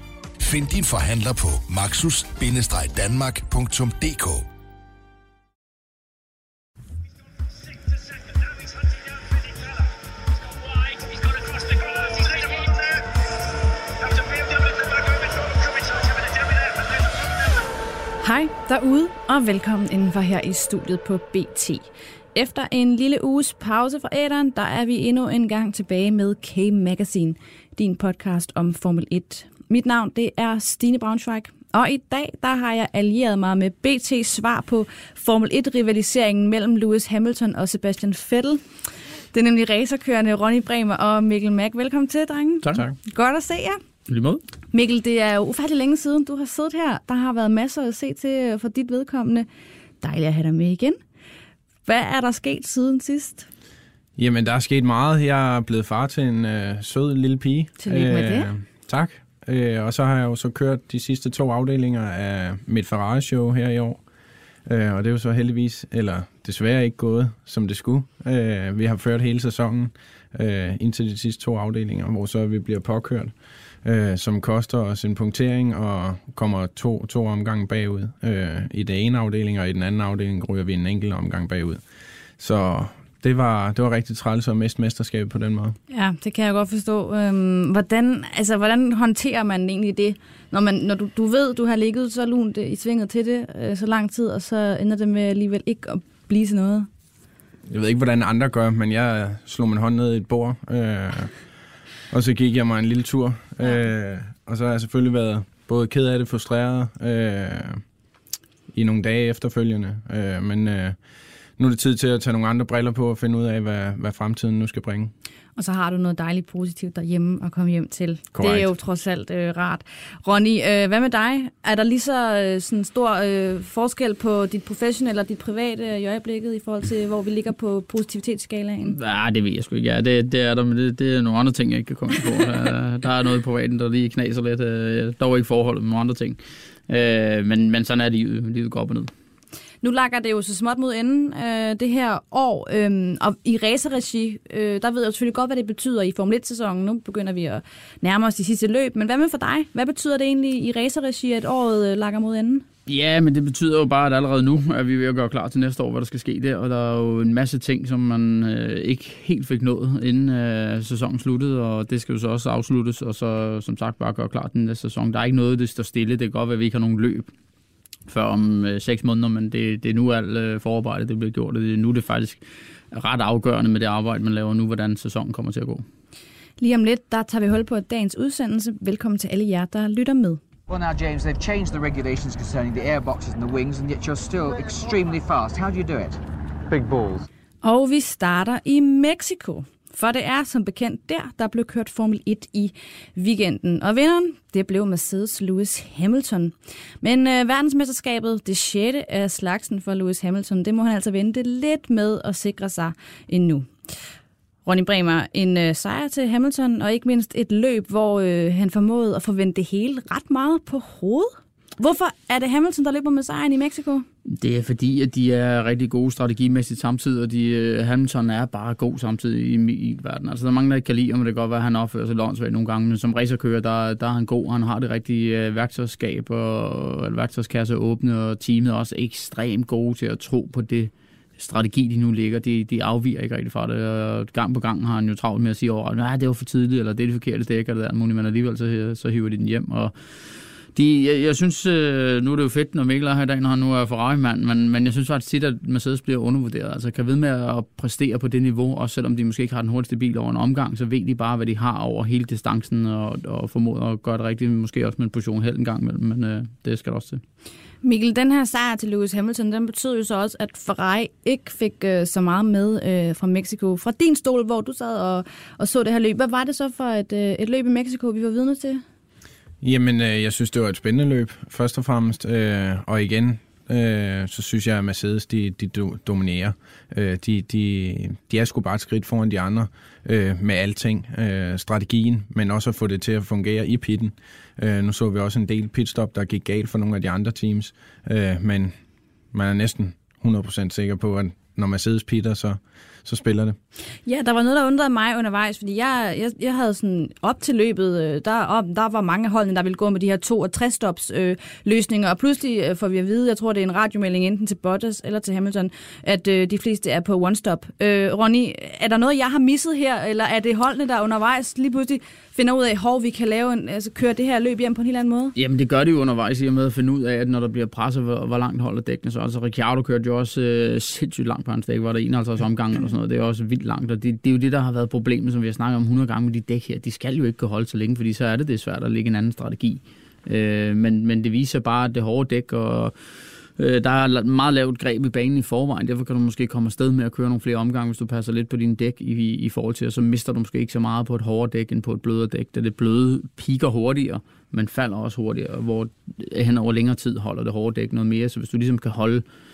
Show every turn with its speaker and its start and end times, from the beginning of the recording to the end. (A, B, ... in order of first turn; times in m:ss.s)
0:00.4-0:04.5 A
0:18.2-0:38.6 B
0:39.3-0:43.8 B
0:44.1-0:44.4 C
0:44.7-0:49.5 B
0:50.0-0:51.0 B
0:51.9-0:53.5 B
0:54.2-1:04.0 D
0:57.8-0:58.5 B
1:04.7-1:21.8 D
1:22.4-1:25.8 D
1:25.9-1:36.9 B
1:37.7-1:41.3 D
1:42.1-1:47.8 D
1:48.7-1:51.0 D
1:51.6-1:55.1 D
1:55.6-2:09.0 B
1:58.4-1:58.7 D
2:08.9-2:16.4 C
2:16.9-2:19.1 C
2:19.8-2:32.6 B
2:32.9-2:47.3 C
2:48.1-2:52.4 C
2:52.9-2:55.8 C
2:56.6-3:00.4 B
3:00.7-3:07.2 E
3:07.6-3:23.7 B
3:24.7-3:34.1 B
3:34.3-4:17.2 C
4:17.8-4:28.8 B
4:29.6-4:48.7 D
4:49.3-4:53.6 D
4:54.1-5:15.3 B
5:15.4-5:33.0 C
5:33.6-5:49.2 C